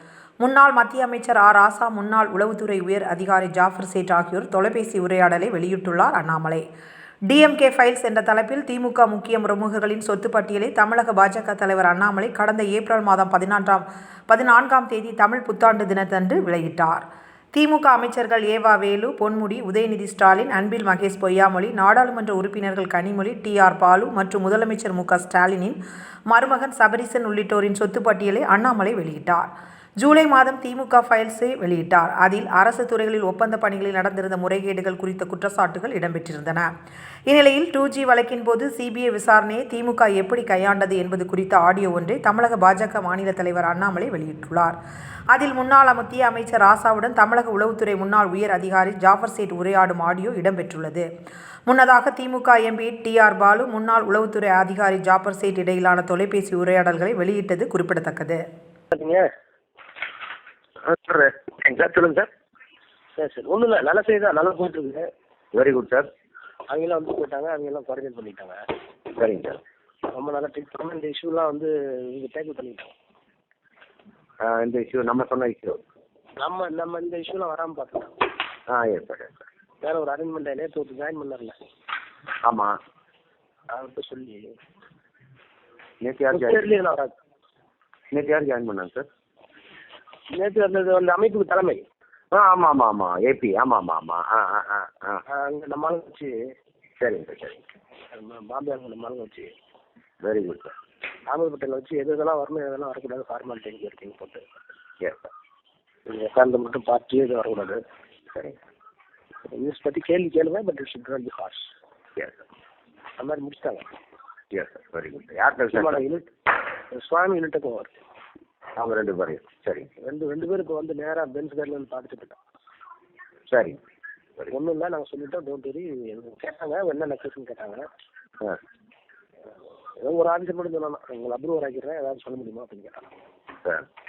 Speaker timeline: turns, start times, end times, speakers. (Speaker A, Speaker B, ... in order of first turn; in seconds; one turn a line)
Speaker A: 0.4-6.6
Speaker A: 7.3-17.0
Speaker A: 17.5-25.8
Speaker A: 26.3-36.7
Speaker A: 37.3-44.7
Speaker A: 45.3-51.0
Speaker A: 51.7-58.4
Speaker B: 58.9-59.3
Speaker C: 60.8-62.3
Speaker B: 63.2-65.0
Speaker C: 65.5-66.1
Speaker B: 66.7-68.6
Speaker C: 69.2-69.6
Speaker B: 70.1-72.9
Speaker C: 74.4-75.8
Speaker B: 76.4-78.2
Speaker C: 78.7-79.4
Speaker B: 79.8-81.5
Speaker C: 82.4-82.8
Speaker B: 83.7-84.5
Speaker C: 86.0-86.7
Speaker B: 86.3-87.1
Speaker C: 88.1-89.1
Speaker B: 90.3-91.8
Speaker C: 92.3-95.2
Speaker B: 95.3-96.3
Speaker C: 97.0-97.6
Speaker B: 98.1-99.5
Speaker C: 100.2-100.7
Speaker B: 101.3-104.4
Speaker C: 105.0-105.3
Speaker B: 106.0-107.8
Speaker C: 108.3-108.6
Speaker B: 109.5-111.7
Speaker B: 113.2-113.9
Speaker C: 114.5-116.0
Speaker B: 115.7-116.3
Speaker B: 116.9-117.9
Speaker C: 118.8-119.9
Speaker B: 120.0-122.4
Speaker C: 123.5-123.8
Speaker B: 124.5-127.8
Speaker B: 130.0-133.1